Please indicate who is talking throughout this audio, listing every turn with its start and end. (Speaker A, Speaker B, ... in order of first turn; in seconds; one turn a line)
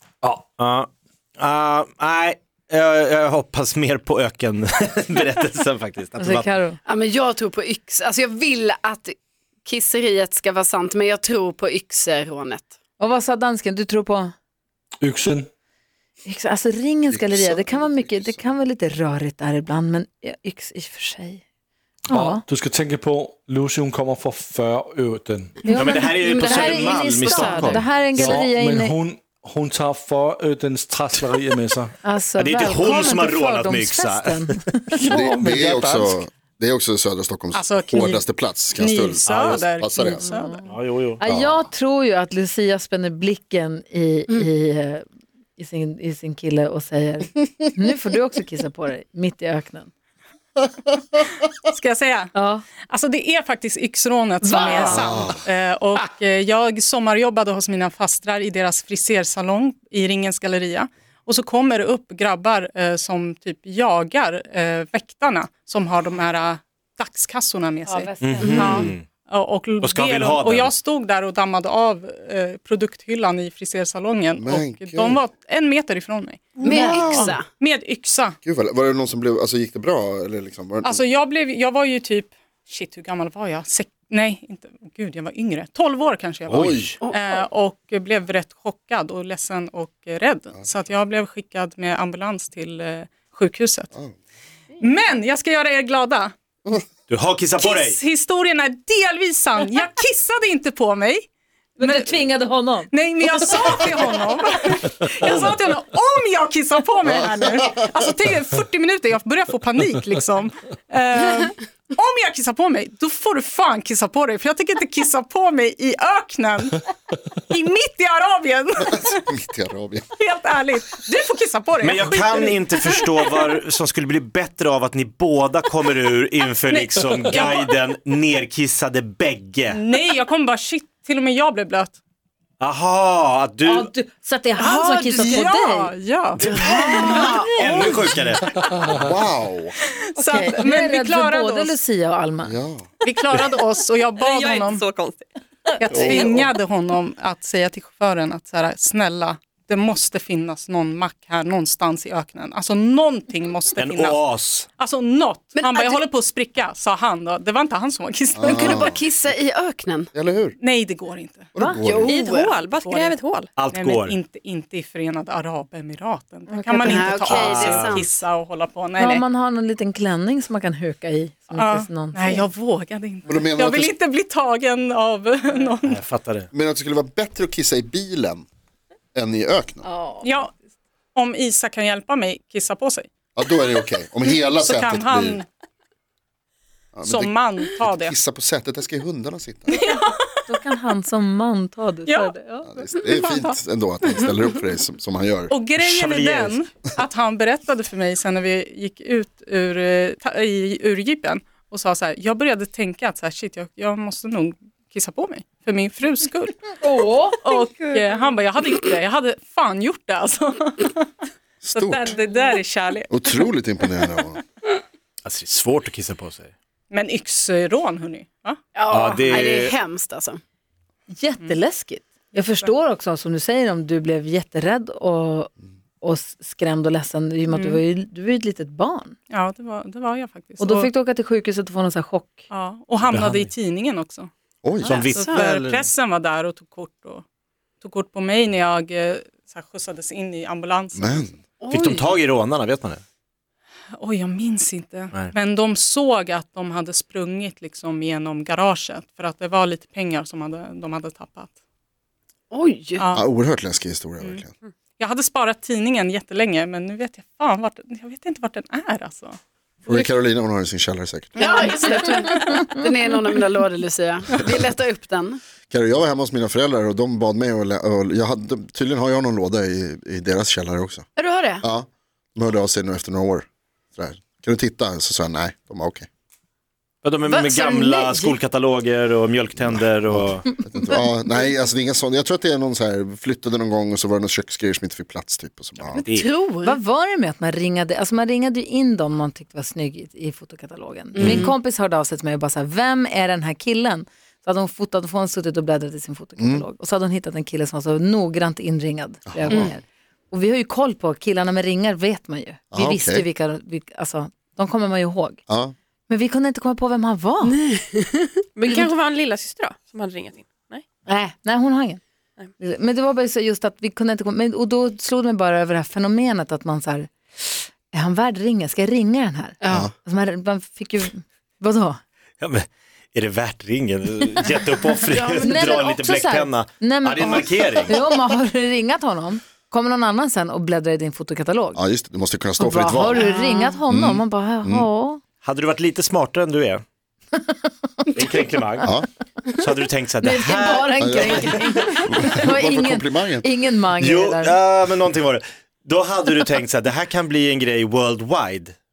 Speaker A: 0.2-0.5
Speaker B: 0.6-6.5
Speaker C: 6.2-6.8
Speaker D: 6.8-12.7
Speaker C: 13.0-14.3
Speaker A: 15.0-15.5
Speaker C: 16.2-21.4
Speaker E: 17.1-18.5
Speaker C: 22.1-22.4
Speaker A: 22.1-25.7
Speaker C: 25.6-28.9
Speaker B: 25.7-28.4
Speaker D: 26.4-27.2
Speaker A: 27.9-31.9
Speaker C: 32.0-34.6
Speaker B: 32.4-34.8
Speaker A: 35.0-36.2
Speaker E: 35.1-40.3
Speaker F: 37.5-40.5
Speaker C: 40.2-45.0
Speaker B: 40.6-41.2
Speaker E: 41.3-41.6
Speaker C: 45.6-49.9
Speaker F: 51.7-52.3
Speaker C: 52.3-52.6
Speaker F: 52.9-78.4
Speaker C: 54.5-55.0
Speaker E: 54.9-55.4
Speaker C: 67.8-68.7
Speaker B: 68.2-69.0
Speaker D: 68.4-68.9
Speaker B: 69.8-70.7
Speaker E: 74.4-75.2
Speaker D: 76.6-77.5
Speaker C: 76.6-77.3
Speaker E: 78.4-81.0
Speaker F: 80.8-93.9
Speaker E: 86.5-86.9
Speaker B: 86.5-86.9
Speaker D: 87.0-87.4
Speaker F: 94.8-96.3
Speaker B: 97.1-98.0
Speaker F: 97.6-101.3
Speaker C: 101.8-102.9
Speaker F: 101.8-102.1
Speaker F: 102.9-116.8
Speaker F: 117.5-119.2
Speaker E: 119.0-120.0
Speaker F: 120.2-123.5
Speaker B: 121.8-129.8
Speaker F: 126.7-127.8
Speaker F: 129.7-131.9
Speaker B: 132.6-133.9
Speaker C: 133.6-135.9
Speaker F: 134.6-137.7
Speaker B: 136.4-138.5
Speaker C: 136.5-137.5
Speaker D: 136.9-137.2
Speaker E: 138.9-139.8
Speaker F: 140.2-141.8
Speaker C: 140.2-142.6
Speaker E: 142.4-142.8
Speaker F: 143.0-144.9
Speaker G: 144.2-145.2
Speaker F: 145.8-158.8
Speaker E: 145.9-146.2
Speaker G: 146.1-146.4
Speaker B: 153.8-154.7
Speaker D: 155.5-156.0
Speaker E: 158.3-159.4
Speaker D: 158.4-160.1
Speaker E: 160.1-160.6
Speaker F: 160.6-161.5
Speaker E: 161.5-162.1
Speaker D: 161.6-162.6
Speaker G: 162.1-163.5
Speaker F: 162.6-163.2
Speaker B: 163.6-164.2
Speaker F: 163.7-169.2
Speaker D: 166.7-168.1
Speaker B: 167.3-168.0
Speaker C: 169.0-172.4
Speaker F: 171.5-176.0
Speaker E: 173.3-173.9
Speaker B: 175.8-176.5
Speaker E: 176.5-178.4
Speaker E: 179.1-179.8
Speaker C: 179.8-180.4
Speaker F: 180.2-180.5
Speaker F: 181.1-183.1
Speaker E: 183.3-185.4
Speaker F: 184.2-185.5
Speaker E: 186.9-189.8
Speaker F: 187.0-188.1
Speaker F: 189.7-190.1
Speaker C: 190.4-192.8
Speaker F: 192.1-192.3
Speaker E: 192.7-195.6
Speaker F: 193.1-193.5
Speaker F: 195.5-206.7
Speaker B: 195.8-196.6
Speaker C: 206.8-207.4
Speaker F: 207.4-211.1
Speaker E: 211.6-212.2
Speaker F: 211.7-213.5
Speaker E: 213.1-214.4
Speaker B: 215.2-216.5
Speaker F: 216.9-218.6
Speaker D: 218.7-220.4
Speaker B: 218.9-219.8
Speaker C: 221.1-229.2
Speaker F: 227.5-227.8
Speaker F: 229.3-230.9
Speaker C: 230.6-232.4
Speaker F: 232.5-234.3
Speaker B: 233.0-233.5
Speaker E: 234.6-234.9
Speaker F: 234.8-237.2
Speaker B: 234.9-235.9
Speaker D: 235.1-235.4
Speaker F: 237.8-241.3
Speaker E: 240.9-241.3
Speaker D: 241.6-242.1
Speaker B: 241.7-243.0
Speaker F: 244.0-251.5
Speaker D: 252.5-253.0
Speaker F: 253.0-253.2
Speaker E: 253.1-254.5
Speaker F: 255.0-259.4
Speaker E: 259.9-261.5
Speaker D: 261.4-265.4
Speaker F: 261.4-262.7
Speaker E: 265.7-271.1
Speaker D: 271.2-271.6
Speaker E: 271.6-276.1
Speaker B: 277.0-280.6
Speaker D: 277.3-278.3
Speaker E: 279.6-286.1
Speaker B: 286.0-286.3
Speaker D: 286.0-286.8
Speaker C: 286.6-305.4
Speaker D: 291.1-291.5
Speaker E: 296.4-296.6
Speaker E: 299.3-299.7
Speaker E: 302.7-303.2
Speaker E: 305.5-305.7
Speaker C: 306.1-307.6
Speaker D: 307.4-308.9
Speaker G: 308.6-310.8
Speaker C: 311.1-312.0
Speaker C: 312.6-322.0
Speaker D: 319.6-319.9
Speaker B: 322.4-328.0
Speaker D: 325.1-325.9
Speaker C: 325.4-331.8
Speaker E: 331.7-333.3
Speaker C: 332.6-335.2
Speaker D: 333.2-333.7
Speaker E: 333.9-334.9
Speaker B: 335.4-336.8
Speaker B: 338.1-338.9
Speaker B: 339.5-341.8
Speaker C: 340.2-344.6
Speaker E: 341.0-343.5
Speaker B: 344.0-348.7